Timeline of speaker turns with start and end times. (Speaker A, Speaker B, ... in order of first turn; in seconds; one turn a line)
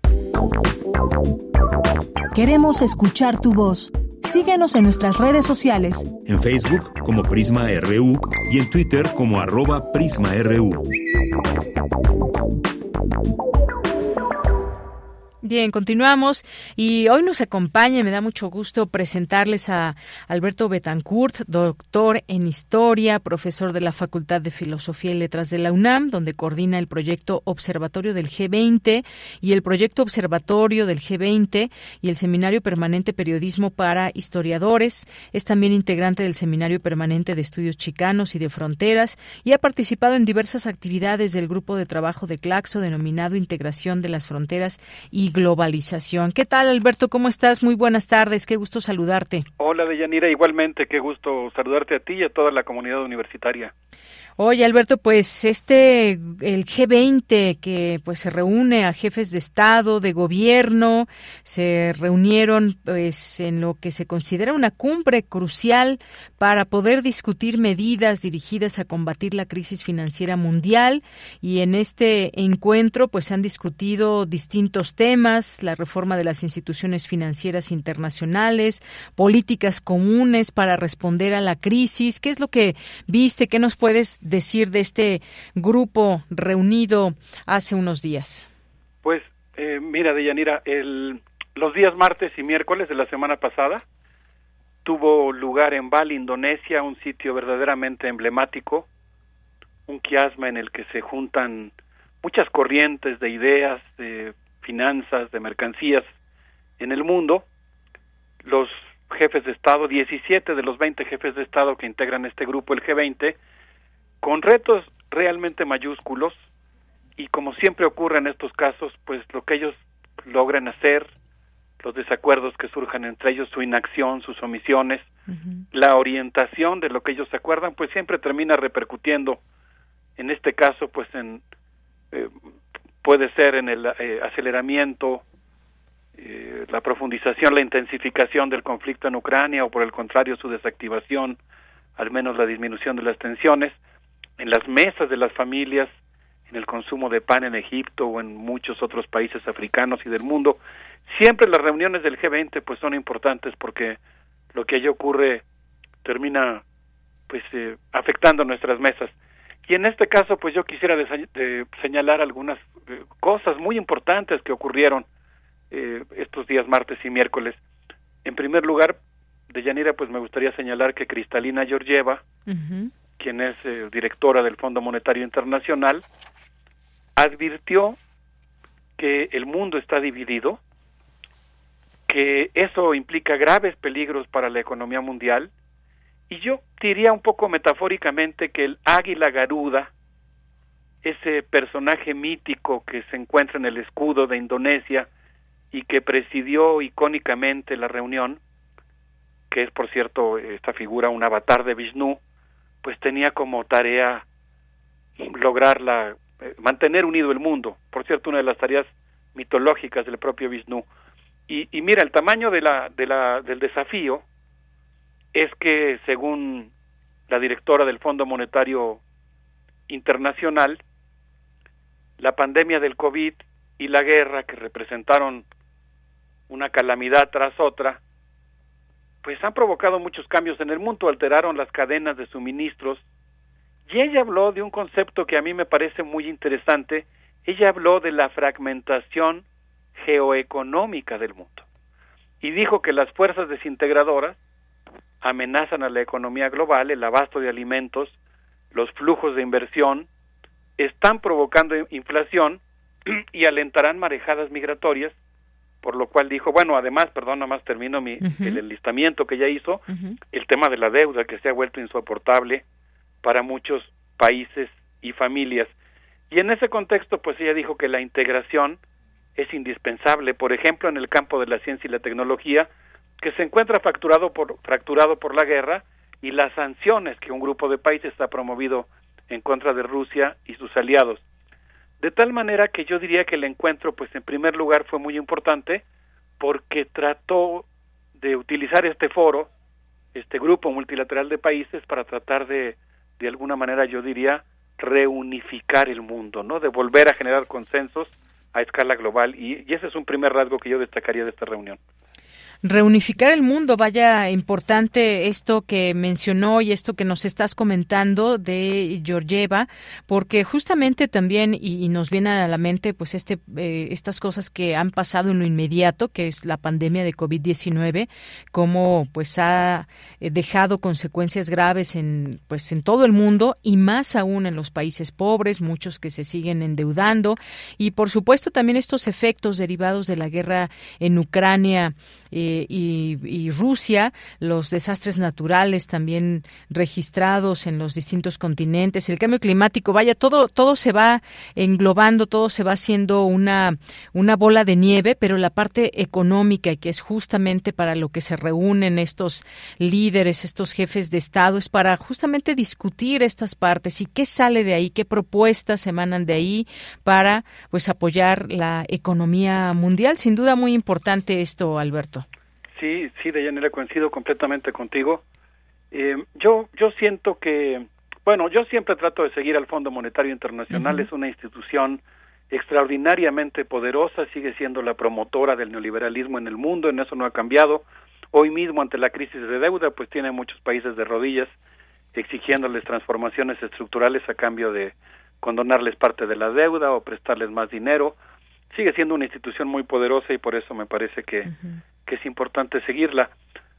Speaker A: 2.3-6.1
Speaker B: 6.2-10.8
Speaker C: 15.4-49.5
Speaker D: 49.6-53.7
Speaker C: 54.4-88.5
Speaker D: 89.0-93.8
Speaker D: 94.8-98.9
Speaker D: 99.9-106.1
Speaker D: 106.8-107.5
Speaker D: 108.4-113.4
Speaker D: 114.2-116.5
Speaker D: 117.2-121.1
Speaker D: 121.8-125.1
Speaker C: 125.3-125.6
Speaker D: 125.7-129.4
Speaker D: 130.2-131.4
Speaker D: 133.0-135.2
Speaker D: 136.2-141.4
Speaker D: 142.0-143.8
Speaker D: 144.4-145.9
Speaker D: 146.5-154.0
Speaker D: 154.5-155.4
Speaker D: 156.0-156.6
Speaker D: 157.3-159.2
Speaker D: 159.7-165.1
Speaker D: 165.7-167.6
Speaker D: 168.2-169.0
Speaker D: 169.5-172.2
Speaker C: 172.5-172.9
Speaker D: 173.2-176.0
Speaker D: 177.2-178.0
Speaker D: 179.0-180.6
Speaker D: 182.1-185.5
Speaker D: 186.3-189.9
Speaker D: 191.0-195.1
Speaker D: 195.7-198.4
Speaker D: 199.5-202.2
Speaker D: 202.8-204.2
Speaker D: 205.2-210.8
Speaker D: 211.5-214.2
Speaker D: 215.3-216.7
Speaker D: 217.3-219.0
Speaker D: 219.9-220.8
Speaker D: 222.2-225.5
Speaker D: 226.5-228.0
Speaker D: 229.2-233.0
Speaker D: 233.9-239.4
Speaker D: 240.0-241.7
Speaker D: 242.4-244.4
Speaker D: 245.2-248.2
Speaker D: 248.7-250.1
Speaker D: 250.8-255.2
Speaker D: 255.8-262.6
Speaker C: 258.2-258.6
Speaker C: 259.9-260.2
Speaker D: 263.2-265.7
Speaker D: 266.3-268.8
Speaker D: 269.4-272.7
Speaker D: 273.2-281.2
Speaker D: 282.0-285.8
Speaker D: 286.4-289.5
Speaker D: 290.1-301.8
Speaker C: 302.6-362.3
Speaker D: 362.8-365.2
Speaker D: 365.9-381.6
Speaker C: 370.7-371.1
Speaker D: 382.1-388.2
Speaker D: 388.7-391.5
Speaker C: 391.4-391.8
Speaker D: 392.1-393.3